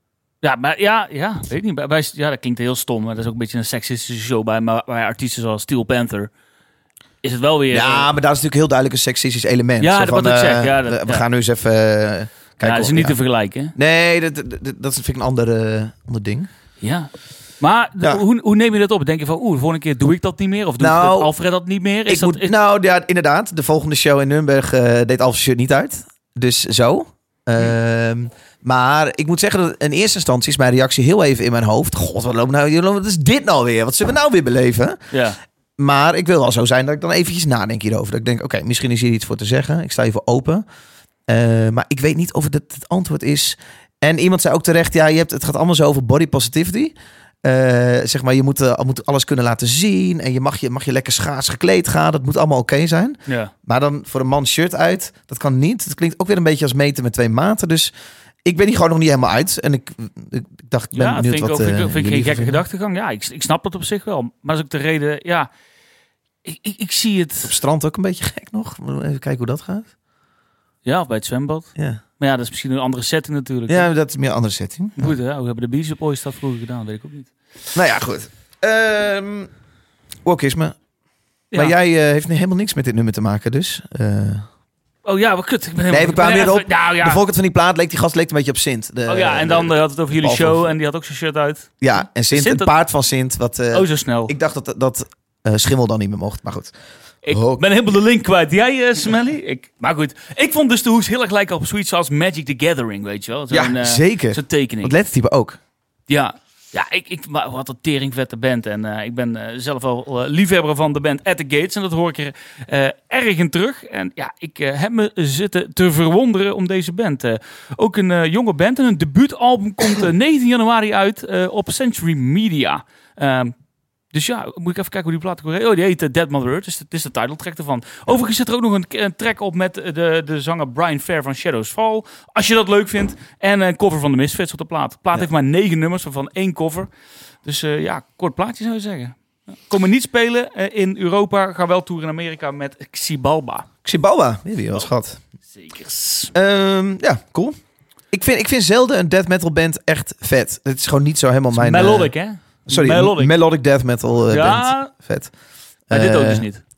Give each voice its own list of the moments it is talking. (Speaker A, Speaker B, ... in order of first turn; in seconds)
Speaker A: 0.4-6.3, 7.2-8.1, 9.8-11.2, 12.6-13.7, 16.8-22.5, 35.1-35.4, 53.3-53.5, 60.9-65.5, 66.4-67.5, 70.8-73.9, 75.0-77.3, 85.0-87.2, 89.1-91.7, 92.3-92.7, 93.7-94.3, 97.2-104.9, 106.1-123.5, 124.1-136.9, 137.4-139.2, 139.7-143.7, 145.5-146.3, 151.5-153.3, 154.3-154.9, 155.9-156.6
Speaker B: 7.7-13.2, 13.7-16.5, 20.8-21.3, 22.1-35.1, 35.8-40.6, 41.3-57.9, 58.4-62.6, 67.4-69.9, 71.8-72.0, 73.7-75.1, 77.7-79.5, 80.2-80.8, 81.5-84.5, 85.9-90.7, 91.8-96.7, 97.3-97.6, 103.5-105.6, 143.8-145.2, 146.3-147.6, 148.1-152.1, 152.7-155.3, 155.9-156.4